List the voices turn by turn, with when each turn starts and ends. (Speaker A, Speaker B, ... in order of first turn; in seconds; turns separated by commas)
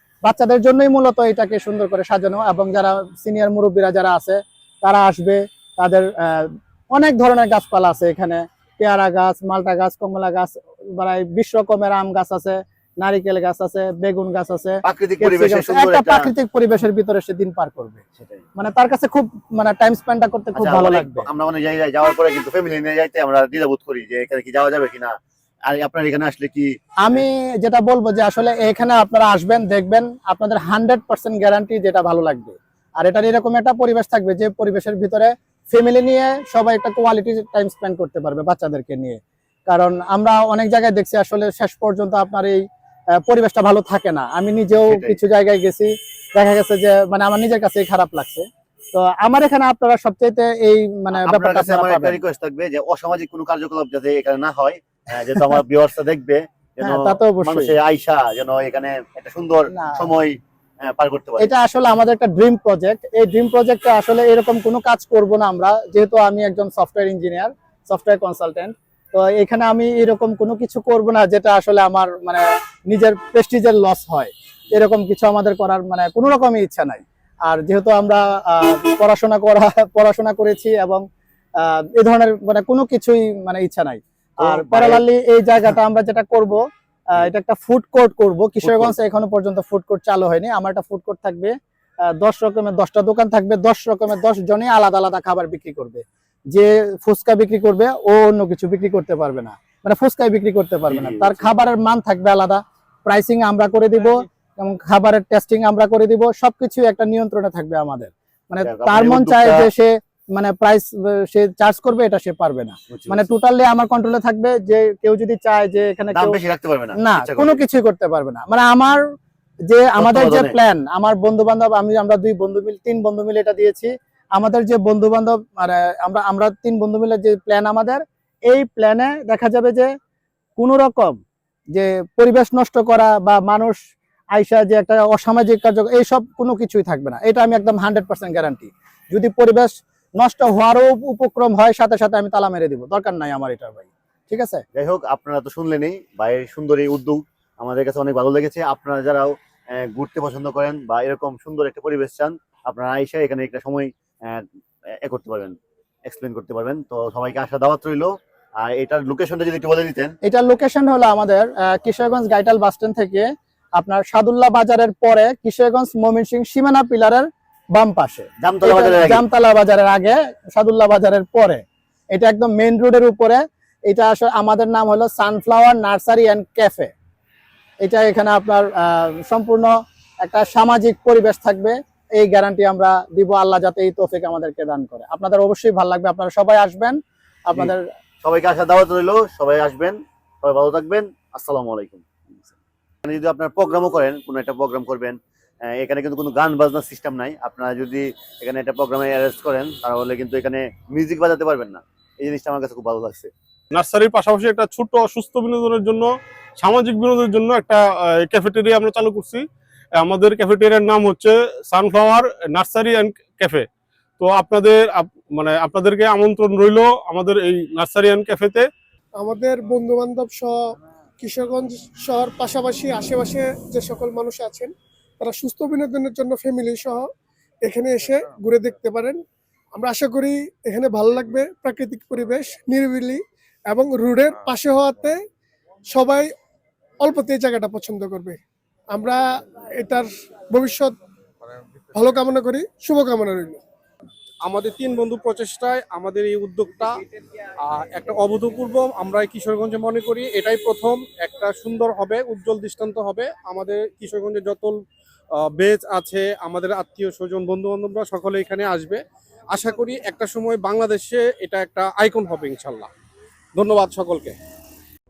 Speaker A: 0.2-18.0, Speaker B: 14.8-16.3, Speaker B: 18.1-18.4, Speaker A: 18.6-21.3, Speaker B: 20.6-27.2, Speaker A: 27.0-42.6, Speaker A: 43.2-52.2, Speaker B: 44.8-45.2, Speaker B: 51.1-61.5, Speaker A: 56.8-57.8, Speaker A: 59.7-60.1, Speaker A: 61.4-81.0, Speaker A: 81.6-86.6, Speaker B: 84.4-85.0, Speaker A: 87.1-91.5, Speaker B: 88.6-88.9, Speaker A: 92.1-116.4, Speaker B: 100.9-101.5, Speaker B: 108.6-109.7, Speaker B: 112.9-113.3, Speaker B: 116.1-117.6, Speaker A: 116.9-119.0, Speaker A: 119.7-129.9, Speaker B: 120.0-120.6, Speaker A: 130.6-131.2, Speaker A: 131.7-133.8, Speaker A: 134.3-144.6, Speaker B: 144.8-154.4, Speaker B: 155.0-160.2, Speaker A: 160.2-163.2, Speaker A: 163.8-171.6, Speaker B: 168.4-169.2, Speaker A: 172.1-176.9, Speaker A: 177.8-179.7, Speaker A: 180.2-187.8, Speaker B: 187.6-192.1, Speaker B: 193.1-203.3, Speaker C: 203.7-209.4, Speaker C: 210.0-213.7, Speaker C: 214.2-218.7, Speaker D: 219.2-227.1, Speaker D: 227.6-229.2, Speaker D: 229.8-235.2, Speaker D: 235.9-236.3, Speaker D: 237.0-238.4, Speaker D: 238.9-239.2, Speaker D: 239.8-240.9, Speaker D: 241.9-243.6, Speaker E: 244.4-246.9, Speaker E: 247.6-254.8, Speaker E: 255.4-259.0, Speaker E: 259.5-262.9, Speaker E: 263.6-264.4